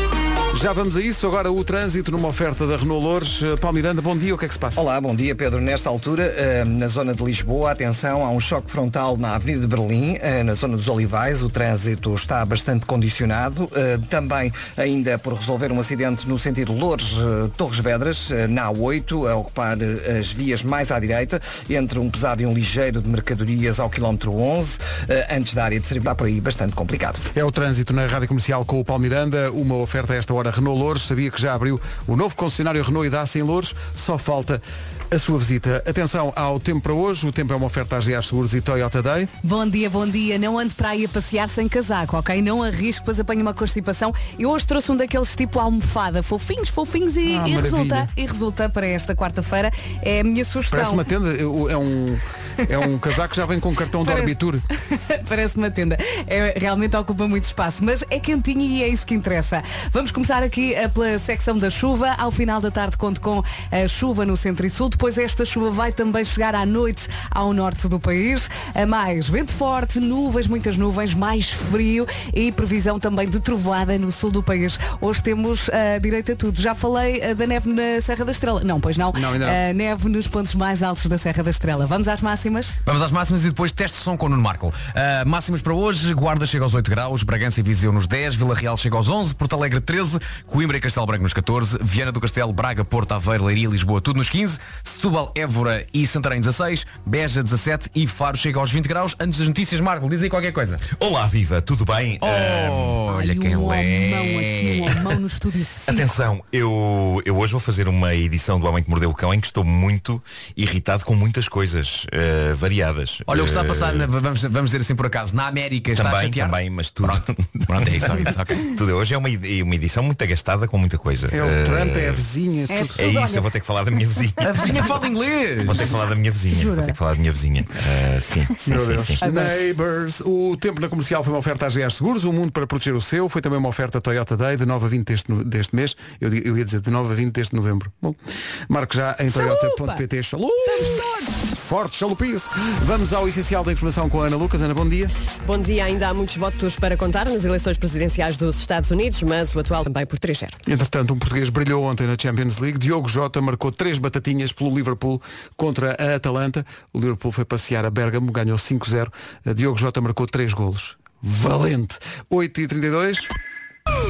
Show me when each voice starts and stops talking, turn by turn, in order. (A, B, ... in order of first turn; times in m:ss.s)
0:00.5-0:04.8 A
0:04.8-0:27.2 B
0:27.3-0:39.3 A
0:39.4-0:51.1 C
0:47.2-0:48.1 A
0:50.7-0:54.6 A
0:54.0-1:22.8 C
1:19.1-1:19.6 A
1:22.8-1:40.8 D
1:40.9-1:43.0 E
1:42.2-1:45.2 D
1:43.0-1:46.1 C
1:45.9-1:54.1 E
1:53.3-1:58.7 D
1:55.9-2:02.2 E
2:01.3-2:03.0 A
2:02.7-2:03.5 C
2:03.0-2:04.8 E
2:04.4-2:06.0 D
2:05.6-2:09.2 E
2:06.5-2:07.0 C
2:08.6-2:18.2 A
2:09.2-2:09.6 C
2:18.7-2:25.1 A
2:19.3-2:20.0 C
2:20.6-2:21.3 C
2:25.4-2:30.6 F
2:30.6-2:43.3 A